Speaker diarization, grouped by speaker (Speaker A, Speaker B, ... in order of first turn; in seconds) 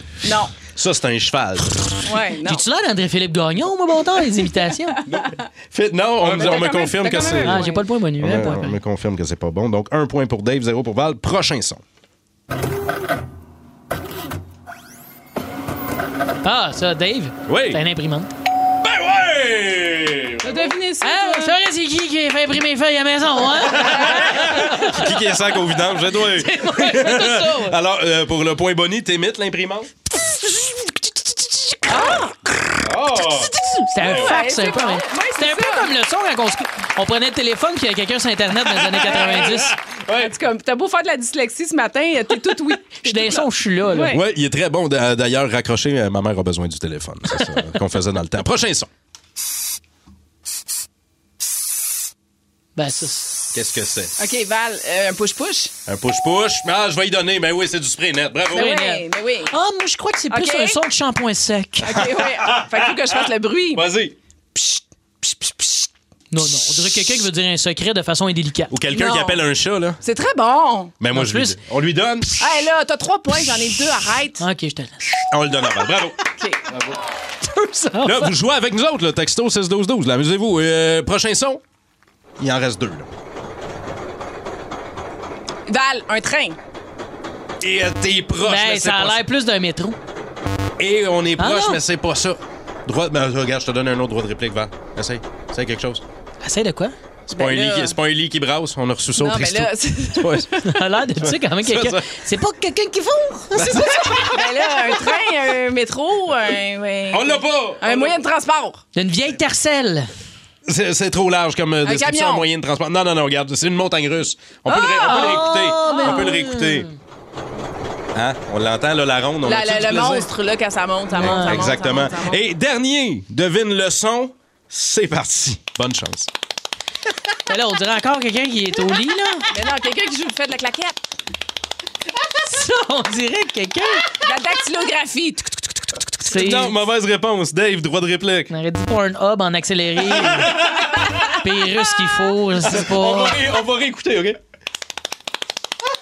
Speaker A: 0.2-0.6, 2.0-2.6, 6.2-7.8, 20.4-21.6, 31.9-32.3, 34.0-35.9, 39.1-39.5, 40.1-44.2, 54.2-55.7, 58.5-59.5, 60.3-60.8, 61.8-63.9, 64.5-65.9, 68.9-69.4, 70.0-71.0, 72.4-74.4, 76.4-76.6, 85.7-86.6, 97.3-98.0, 99.2-100.6, 104.2-108.8, 111.8-112.5, 114.7-116.4, 119.5-122.4, 129.5-131.0, 134.2-135.6
Speaker B: 0.7-1.9, 5.1-7.6, 8.2-11.8, 17.5-17.8, 18.8-20.7, 23.7-29.9, 32.8-34.4, 38.9-40.3, 44.1-48.9, 53.5-54.1, 55.9-58.8, 62.4-62.9, 63.7-64.1, 68.7-70.0, 71.0-72.4, 75.3-76.2, 78.0-81.6, 82.4-83.1, 87.6-89.2, 90.8-96.0, 97.3-100.5, 101.1-102.1, 103.5-104.5, 107.1-108.2, 110.7-116.9, 118.1-120.3, 121.1-126.3, 136.3-138.5, 140.2-141.0, 142.6-144.4
Speaker C: 2.5-5.0, 7.4-8.8, 16.4-18.3, 21.0-25.2, 25.9-27.8, 30.3-32.2, 33.1-39.8, 43.0-44.2, 52.8-53.4, 58.5-62.0, 66.3-68.7, 71.1-71.6, 74.4-75.2, 77.4-78.3, 88.4-90.0, 91.4-91.8, 96.4-97.0, 100.6-104.3, 109.0-110.1, 115.0-116.9, 121.2-121.6, 127.5-129.4, 132.4-134.1, 136.2-136.8, 138.5-140.6, 141.4-143.4